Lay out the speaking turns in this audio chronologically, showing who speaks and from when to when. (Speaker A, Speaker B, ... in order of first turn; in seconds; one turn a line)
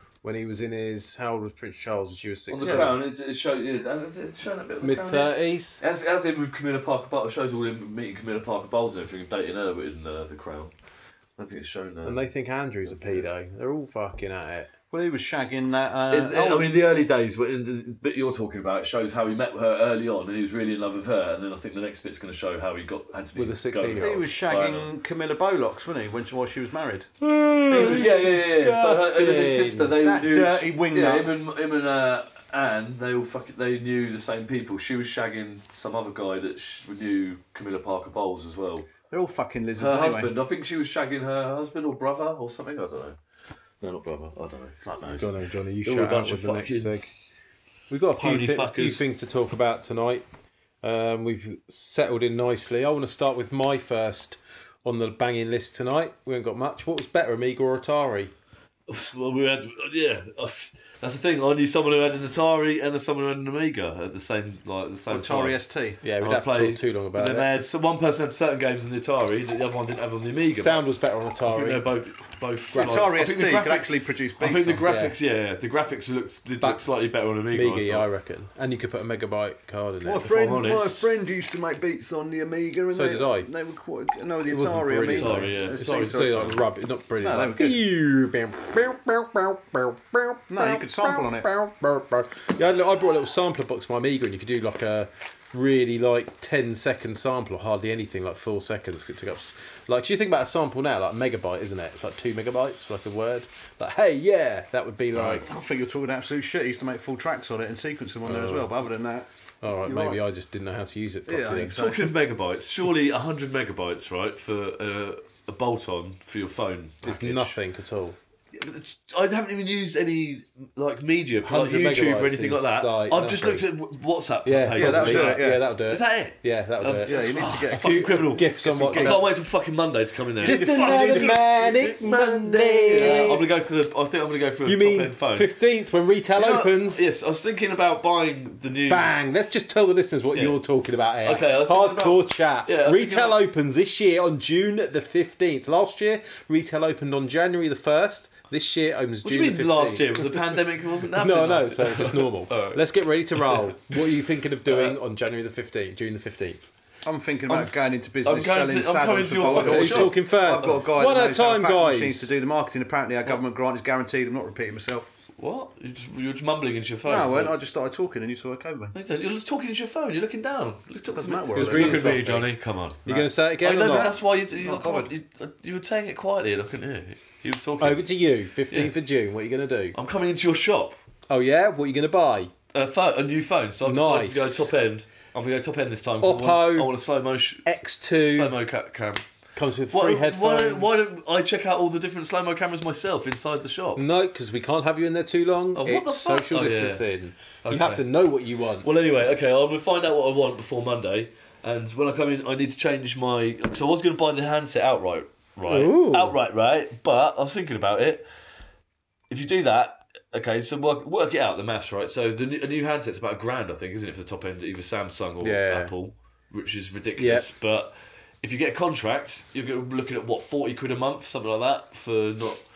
Speaker A: 0.2-3.0
Speaker B: 2.5-10.7
Speaker C: 2.6-2.9
Speaker A: 4.8-5.8
Speaker B: 11.4-12.2
Speaker A: 12.0-14.7
Speaker B: 12.8-13.2
Speaker C: 14.9-16.8
Speaker B: 16.1-24.9
Speaker A: 23.4-24.2
Speaker C: 24.0-27.1
Speaker A: 27.2-30.0
Speaker C: 27.7-28.3
Speaker B: 27.7-38.9
Speaker C: 30.0-31.3
Speaker C: 39.1-40.3
Speaker B: 39.8-43.2
Speaker B: 43.8-45.3
Speaker A: 45.1-47.1
Speaker B: 45.9-47.0
Speaker A: 47.9-50.2
Speaker B: 48.2-49.0
Speaker A: 50.8-58.3
Speaker B: 58.9-65.6
Speaker C: 65.1-66.0
Speaker A: 66.0-67.5
Speaker B: 66.2-70.8
Speaker A: 70.5-71.9
Speaker B: 71.4-78.1
Speaker C: 72.7-74.9
Speaker A: 74.9-75.2
Speaker A: 77.5-80.3
Speaker C: 80.0-86.6
Speaker B: 80.2-81.1
Speaker A: 82.9-83.5
Speaker A: 84.5-105.5
Speaker B: 85.0-86.6
Speaker C: 87.2-87.8
Speaker C: 90.5-91.5
Speaker C: 105.1-109.3
Speaker A: 108.3-108.7
Speaker A: 109.6-111.8
Speaker C: 109.8-110.2
Speaker C: 111.3-112.1
Speaker B: 111.7-117.6
Speaker A: 117.0-118.2
Speaker B: 118.5-135.5
Speaker A: 121.4-123.7
Speaker A: 124.5-129.3
Speaker C: 124.7-125.7
Speaker C: 127.0-129.3
Speaker C: 130.4-131.9
Speaker A: 130.4-133.5
Speaker C: 132.9-133.4
Speaker A: 134.7-137.1
Speaker B: 136.4-139.1
Speaker A: 138.9-150.4
Speaker B: 140.3-140.6
Speaker B: 141.2-143.4
Speaker B: 149.2-152.8
Speaker A: 151.2-156.6
Speaker B: 153.3-153.8
Speaker B: 154.7-155.0
Speaker C: 157.1-165.1
Speaker B: 158.2-160.8
Speaker A: 159.4-162.3
Speaker B: 165.4-167.6
Speaker C: 167.1-168.9
Speaker B: 168.9-173.1
Speaker C: 171.1-172.2
Speaker A: 171.6-172.5
Speaker A: 173.1-174.2
Speaker B: 173.6-178.1
Speaker C: 173.8-175.1
Speaker A: 177.8-180.0
Speaker B: 179.9-181.0
Speaker A: 181.3-182.5
Speaker B: 182.7-187.7
Speaker A: 183.8-184.7
Speaker A: 186.2-186.9
Speaker A: 187.7-188.6
Speaker B: 188.2-189.2
Speaker A: 189.6-191.1
Speaker B: 189.9-194.0
Speaker A: 194.0-198.9
Speaker B: 195.8-197.1
Speaker B: 197.6-198.1
Speaker B: 198.8-208.2
Speaker A: 205.7-206.4
Speaker B: 209.3-222.6
Speaker A: 215.4-215.9
Speaker A: 217.2-217.5